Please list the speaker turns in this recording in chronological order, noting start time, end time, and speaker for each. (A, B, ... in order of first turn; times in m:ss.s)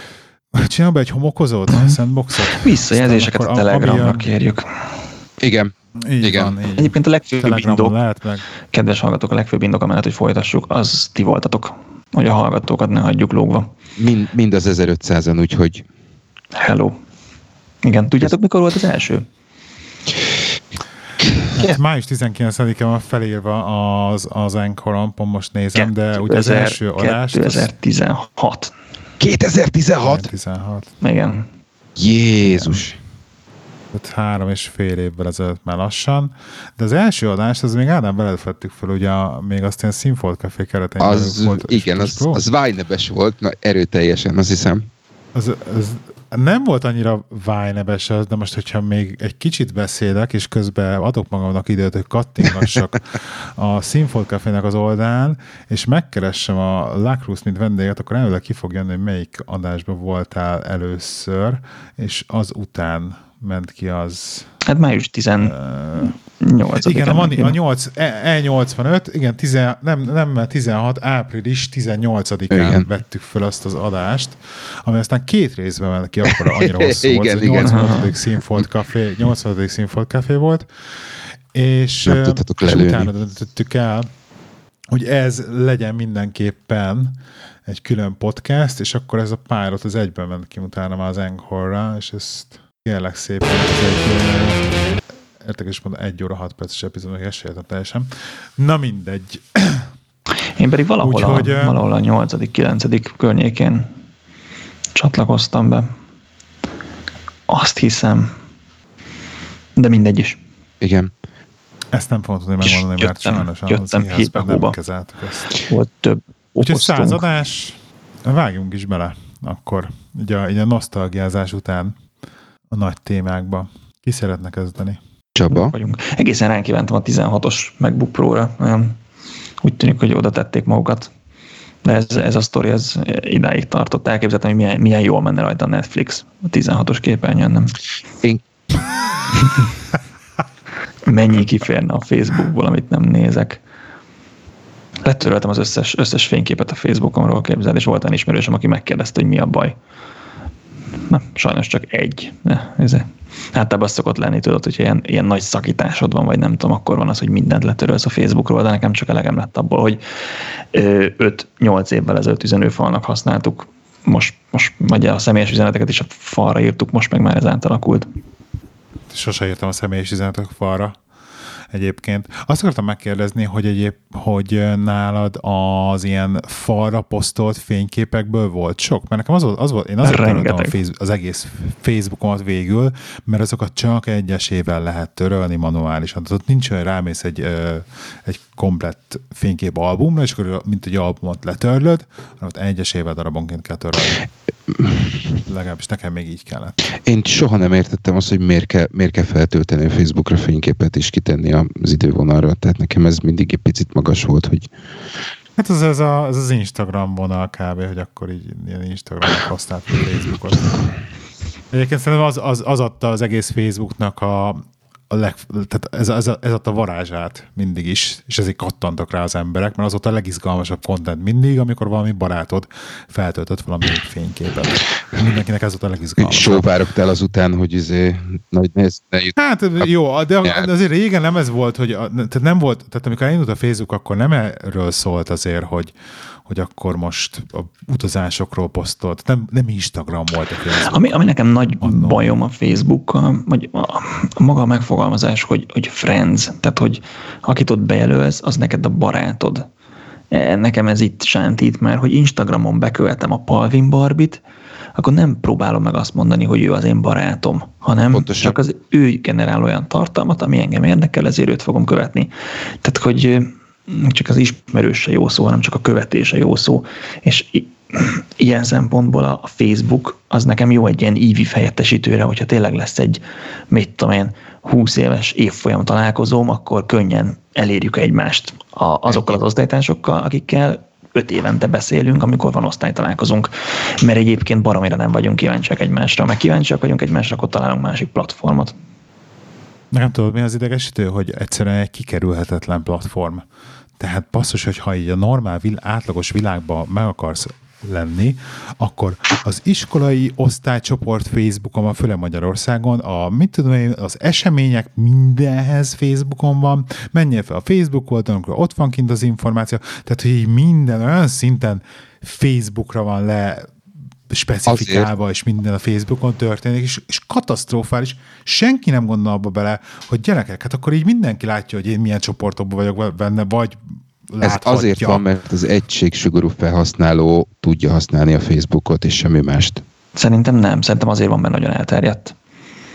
0:00.5-0:04.3 A
0:01.7-0:02.0 B
0:02.5-0:05.0 B
0:05.4-0:06.5 C
0:06.0-0:08.4 A
0:06.8-0:07.9 B
0:08.7-0:13.7 B
0:14.0-0:15.8 C
0:16.5-0:17.0 B
0:17.8-0:19.3 B
0:21.6-0:27.7 A
0:25.7-0:28.7 B
0:29.2-0:30.3 C
0:30.0-0:30.9 A
0:31.0-0:31.5 B
0:32.0-0:33.0 C
0:32.4-0:32.8 A
0:33.9-0:42.4 A
0:41.0-0:44.9 C
0:45.3-1:04.5 A
1:04.6-1:07.6 B
1:05.4-1:06.1 A
1:06.8-1:20.6 A
1:12.5-1:12.8 C
1:16.3-1:18.0 C
1:17.6-1:18.1 B
1:21.5-1:24.1 A
1:22.0-1:23.1 C
1:24.9-1:34.7 A
1:35.4-1:39.9 A
1:40.6-1:43.9 B
1:41.0-1:41.8 A
1:44.9-1:45.9 B
1:47.5-1:48.4 B
1:49.8-1:50.4 B
1:50.8-1:51.1 C
1:51.9-1:55.5 A
1:52.6-1:54.7 B
1:55.5-1:57.2 B
1:56.6-2:02.0 A
2:02.7-2:05.0 A
2:05.4-2:05.7 C
2:05.5-2:09.0 B
2:09.6-2:11.1 B
2:11.8-2:17.7 B
2:21.0-2:23.6 B
2:25.0-2:29.8 B
2:31.1-2:40.0 B
2:40.7-2:48.1 B
2:49.1-2:51.0 A
2:51.7-3:14.2 A
3:00.0-3:00.7 B
3:14.7-3:15.2 C
3:15.4-3:16.8 A
3:17.0-3:24.7 C
3:25.6-3:30.7 A
3:31.7-3:46.7 A
3:46.2-3:49.4 C
3:49.4-3:55.9 A
3:56.4-4:01.2 A
4:00.9-4:09.6 B
4:01.8-4:02.2 A
4:10.3-4:14.4 B
4:14.9-4:22.3 B
4:18.1-4:18.5 C
4:22.8-4:48.7 B
4:49.9-4:53.4 A
4:54.0-5:13.7 A
5:14.3-5:25.2 A
5:14.7-5:15.1 C
5:24.4-5:29.8 C
5:30.2-5:32.3 B